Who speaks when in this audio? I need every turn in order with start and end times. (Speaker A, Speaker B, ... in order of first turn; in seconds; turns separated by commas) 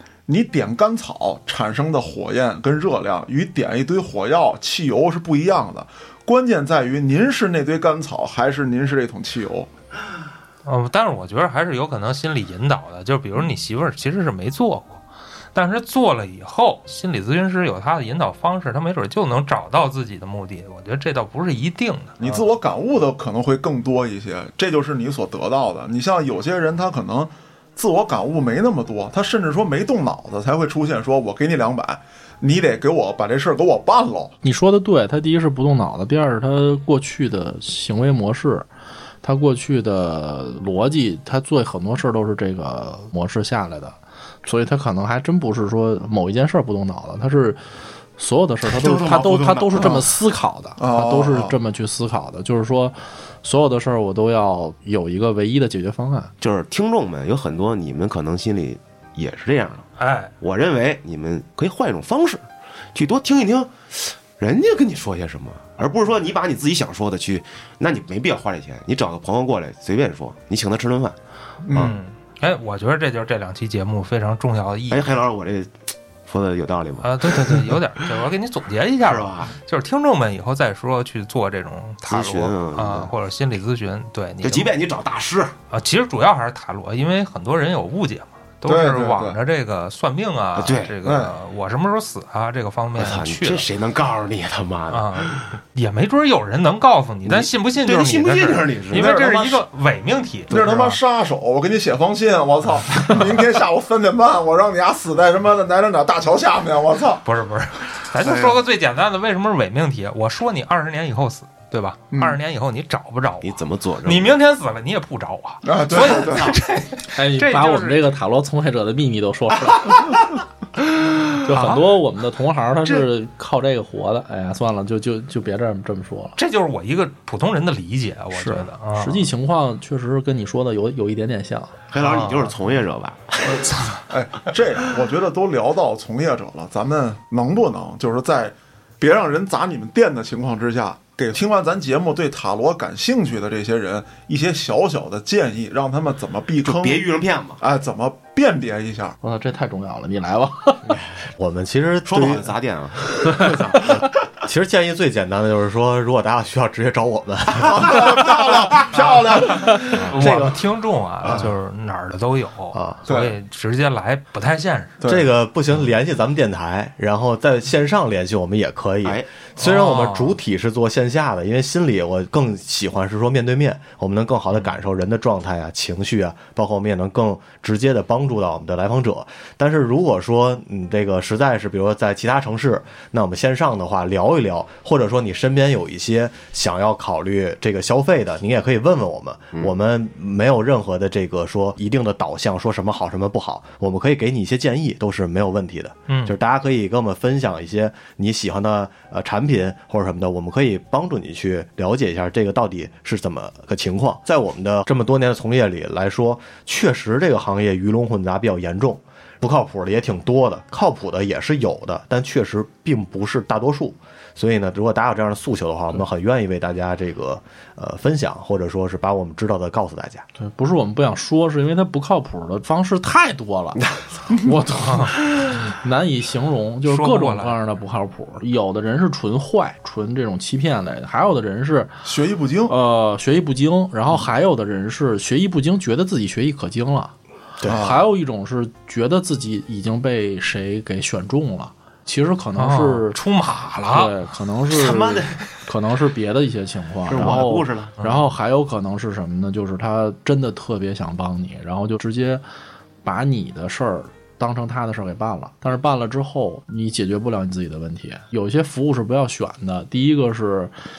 Speaker A: 0.3-9.7, Speaker B: 10.7-22.5, Speaker A: 22.2-34.4, Speaker C: 34.4-38.7, Speaker C: 39.2-47.6, Speaker C: 48.2-56.3, Speaker D: 48.6-50.1, Speaker A: 50.8-51.5, Speaker D: 56.4-59.9, Speaker B: 60.0-60.3, Speaker D: 60.4-71.2, Speaker A: 71.7-72.0, Speaker D: 71.7-72.0, Speaker B: 71.8-75.1, Speaker D: 74.9-75.8, Speaker D: 76.3-77.8, Speaker B: 77.0-84.7, Speaker D: 79.0-79.5, Speaker D: 82.1-83.1, Speaker D: 84.4-85.5, Speaker B: 85.7-93.7, Speaker A: 88.7-89.4, Speaker D: 90.6-91.0, Speaker A: 91.0-91.4, Speaker D: 93.0-95.6, Speaker B: 94.9-101.0, Speaker D: 97.2-99.6, Speaker A: 100.5-107.2, Speaker B: 107.2-118.1, Speaker D: 108.2-108.6, Speaker A: 112.1-112.4, Speaker D: 113.4-114.4, Speaker A: 115.6-116.6, Speaker C: 117.1-120.3, Speaker C: 121.3-126.4, Speaker B: 121.5-121.9, Speaker B: 126.4-129.3, Speaker C: 128.3-131.8, Speaker D: 131.9-133.7, Speaker B: 132.0-132.6, Speaker B: 133.5-134.0, Speaker A: 134.1-147.1, Speaker D: 146.6-147.6, Speaker A: 147.6-149.2, Speaker C: 149.2-150.9, Speaker D: 150.9-151.3, Speaker E: 151.4-152.5, Speaker D: 152.1-153.9, Speaker C: 153.2-154.0, Speaker E: 153.7-158.5, Speaker A: 157.6-160.1, Speaker B: 159.7-165.0, Speaker E: 160.1-160.6, Speaker E: 162.7-163.0, Speaker A: 163.1-163.4, Speaker A: 165.0-165.3, Speaker E: 165.0-220.3, Speaker B: 169.6-170.4, Speaker B: 196.1-196.3, Speaker C: 220.4-231.9, Speaker B: 226.8-227.6, Speaker A: 232.1-232.8, Speaker C: 232.7-237.1, Speaker C: 237.7-243.2, Speaker A: 237.7-238.1, Speaker B: 242.6-244.1, Speaker C: 243.8-252.4, Speaker D: 244.7-245.4, Speaker D: 247.1-247.9, Speaker B: 248.0-248.3, Speaker C: 253.0-260.7